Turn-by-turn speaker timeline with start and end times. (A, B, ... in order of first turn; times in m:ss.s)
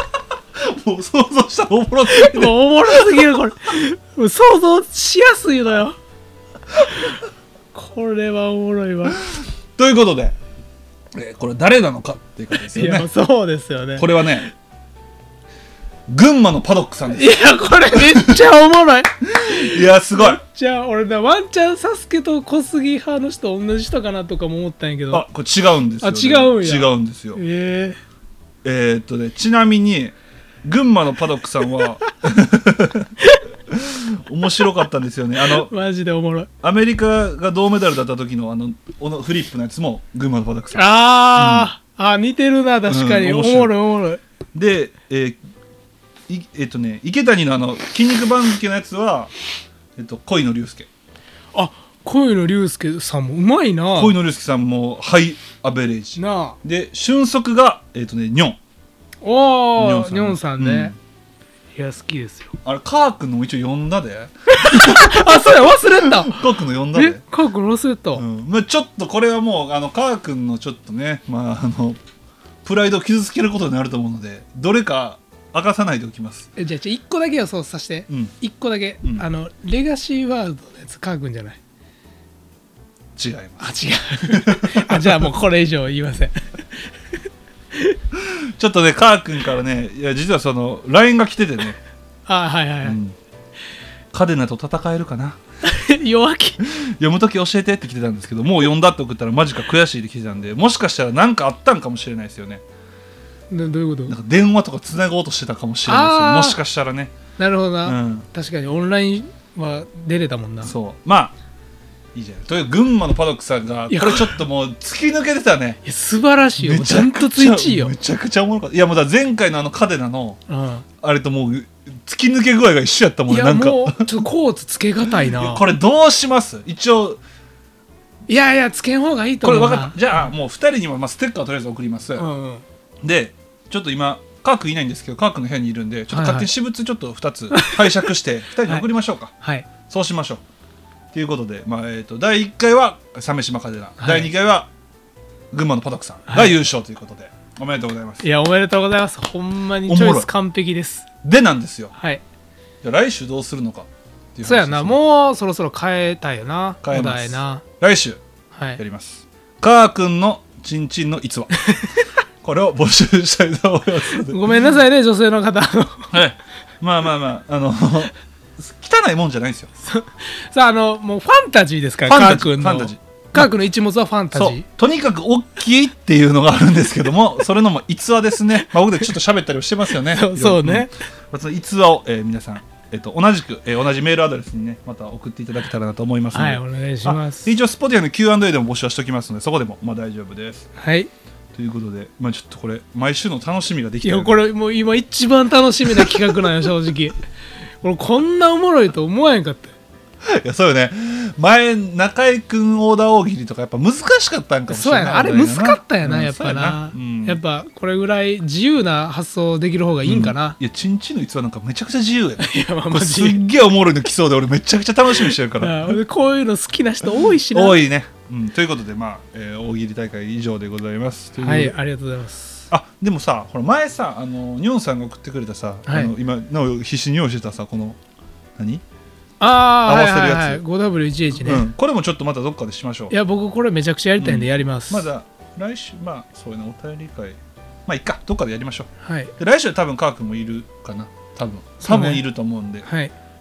0:00.6-0:03.3 A
0:02.1-0:06.0 B
0:06.8-0:07.2 B
0:07.7-0:09.2 B
0:09.8-0:10.4 A
0:11.1-0:13.1 A
0:12.6-0:14.1 B
0:14.0-0:14.5 A
0:16.1-0:17.4 A
0:17.1-0:25.3 B
0:17.9-0:18.4 A
0:19.3-0:20.4 A
0:25.1-0:27.4 A
0:26.0-0:28.0 B
0:28.6-0:33.1 A
0:33.7-0:35.7 A
0:35.4-0:36.5 B
0:36.6-0:41.7 A
0:40.7-0:44.2 B
0:42.9-0:43.7 A
0:44.6-0:45.4 A
0:46.3-0:49.3 A
0:50.0-0:50.9 A
0:51.5-0:54.2 B
0:54.0-0:58.6 A
0:56.2-0:56.6 B
0:59.2-1:01.0 B
0:59.8-1:01.0 A
1:01.8-1:02.6 B
1:02.6-1:07.2 A
1:04.5-1:08.2 B
1:08.2-1:12.0 A
1:12.6-1:16.5 A
1:16.6-1:21.6 B
1:23.2-1:25.3 A
1:23.6-1:26.9 B
1:28.1-1:31.8 A
1:32.3-1:33.0 B
1:32.8-1:33.2 A
1:34.1-1:35.4 A
1:35.6-1:36.6 B
1:36.6-1:42.6 A
1:43.5-1:44.2 B
1:44.1-1:47.1 A
1:45.9-1:46.6 B
1:47.4-1:50.7 B
1:47.8-1:48.3 A
1:50.6-1:51.4 A
1:52.2-1:55.8 A
1:53.9-1:54.4 B
1:55.8-1:57.9 B
1:56.6-2:00.4 A
2:00.5-2:00.8 B
2:01.0-2:04.1 A
2:03.3-2:05.7 B
2:05.1-2:07.2 A
2:08.3-2:10.3 B
2:09.4-2:12.3 A
2:12.2-2:12.6 B
2:13.0-2:19.3 A
2:16.1-2:16.5 B
2:17.5-2:18.1 B
2:19.4-2:19.7 B
2:19.9-2:20.4 A
2:21.1-2:24.7 A
2:24.0-2:24.3 B
2:25.5-2:28.2 A
2:26.3-2:26.6 B
2:28.2-2:31.1 B
2:29.8-2:30.3 A
2:31.2-2:31.9 A
2:31.9-2:32.2 B
2:32.8-2:35.0 A
2:34.4-2:37.6 B
2:36.8-2:38.2 A
2:38.5-2:38.8 B
2:38.8-2:41.8 A
2:42.4-2:44.4 A
2:44.3-2:46.1 B
2:46.1-2:49.7 A
2:49.8-2:54.6 B
2:52.1-2:53.5 A
2:54.3-3:10.7 A
3:00.0-3:00.9 B
3:06.3-3:07.6 B
3:10.8-3:11.1 B
3:11.6-3:14.4 A
3:14.0-3:17.2 B
3:15.9-3:16.5 A
3:17.8-3:19.8 B
3:20.2-3:27.4 A
3:24.7-3:30.6 B
3:30.0-3:36.0 A
3:32.4-3:33.4 B
3:35.1-3:37.8 B
3:37.3-3:41.8 A
3:41.4-3:42.6 B
3:42.7-3:48.0 A
3:45.9-3:46.1 B
3:48.6-3:48.8 A
3:49.4-3:51.6 B
3:49.8-3:50.6 A
3:51.4-3:53.1 A
3:53.1-3:55.1 B
3:54.2-3:58.9 A
3:59.0-3:59.3 B
3:59.4-4:02.9 A
4:01.8-4:02.2 B
4:02.8-4:03.1 B